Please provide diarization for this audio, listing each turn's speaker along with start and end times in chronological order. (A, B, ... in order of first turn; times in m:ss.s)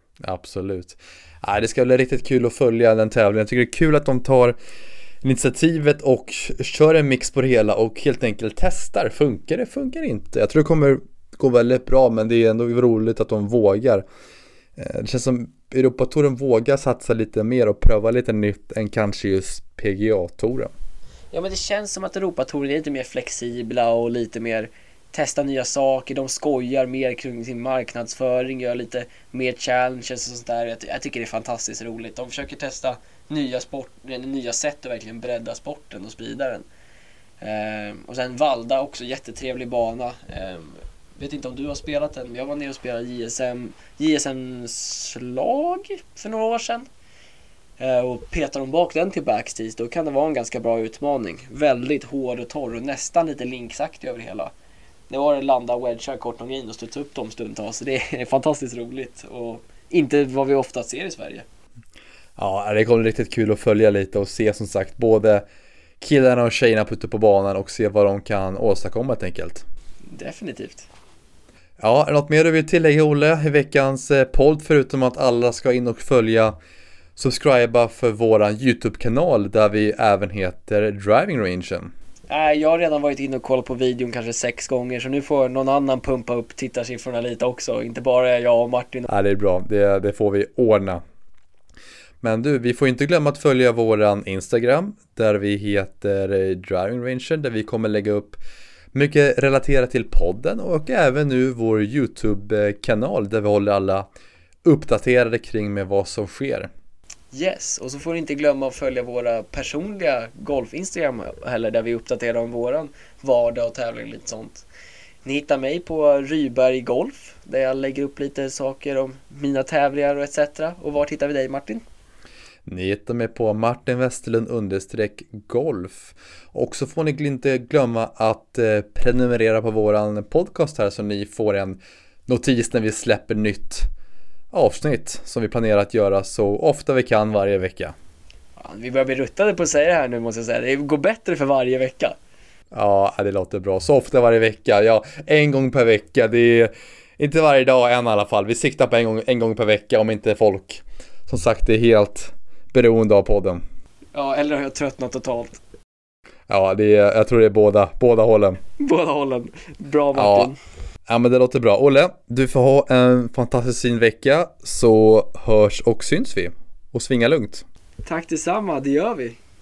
0:00.2-0:04.6 A
0:05.2-0:14.0 A
0:14.8-0:20.7 A
0:21.3-0:36.6 B
0:37.4-0:46.8 B
0:47.8-0:54.5 B
0:55.1-1:01.4 B
1:02.4-1:05.4 A
1:06.0-1:09.6 A
1:10.1-1:10.9 B
1:11.8-1:16.5 A
1:17.2-1:21.9 A
1:22.3-1:29.1 B
1:29.1-1:31.0 A
1:32.2-1:38.4 A
1:38.9-1:44.1 A
1:44.6-1:46.7 A
1:47.3-1:54.6 B
1:55.2-2:01.8 B
2:02.7-2:13.9 A
2:14.5-2:18.0 A
2:18.6-2:22.2 B
2:22.7-2:33.6 A
2:34.1-2:35.6 B
2:36.5-2:38.6 A
2:38.8-2:40.6 B
2:40.1-2:40.5 A
2:41.1-2:47.6 A
2:48.0-2:49.4 B